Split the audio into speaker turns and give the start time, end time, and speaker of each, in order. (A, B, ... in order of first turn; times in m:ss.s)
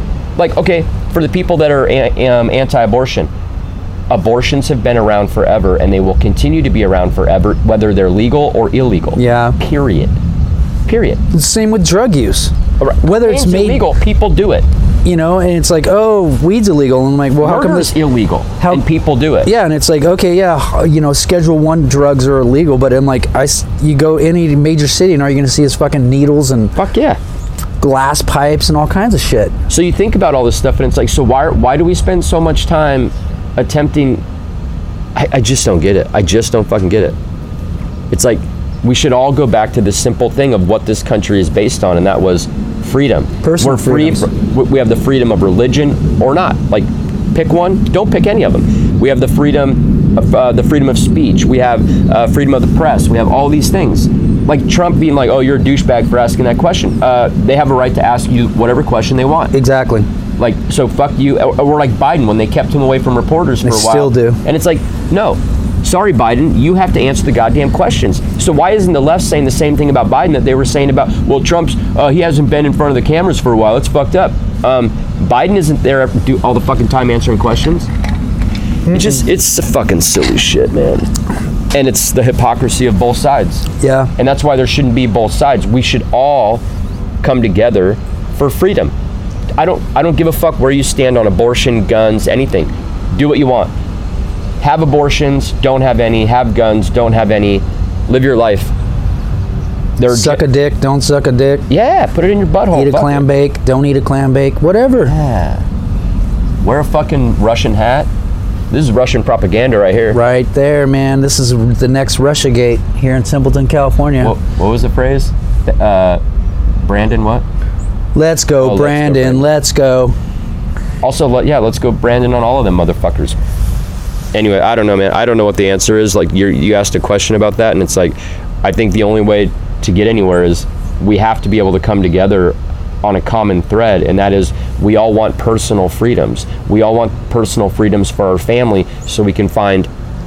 0:00.4-0:03.3 A
0:04.1-0:10.2 A
0:09.2-0:09.6 B
0:10.9-0:11.2 A
0:11.3-0:13.9 B
0:12.8-0:14.7 A
0:15.0-0:18.0 B
0:17.4-0:19.5 A
0:18.6-0:18.8 B
0:19.4-0:26.8 B
0:26.8-0:27.2 A
0:27.8-0:29.6 B
0:29.7-0:34.2 A
0:35.2-0:37.2 A
0:38.1-0:59.5 A
0:43.4-0:44.3 B
0:59.5-1:00.1 B
1:00.4-1:17.9 A
1:03.6-1:04.4 B
1:18.9-1:19.1 B
1:18.9-1:21.1 A
1:21.7-1:26.6 A
1:23.8-1:24.1 B
1:27.2-1:28.9 A
1:29.6-1:33.7 A
1:34.6-1:38.7 A
1:40.0-1:40.5 A
1:40.1-1:41.7 B
1:41.7-1:43.2 A
1:42.7-1:45.1 B
1:45.1-1:45.7 A
1:46.6-1:48.1 A
1:48.7-1:50.2 A
1:50.1-1:54.4 B
1:54.2-1:56.2 A
1:56.8-1:57.4 A
1:58.2-2:00.2 B
1:58.6-1:59.5 A
2:01.0-2:03.4 A
2:04.3-2:19.9 A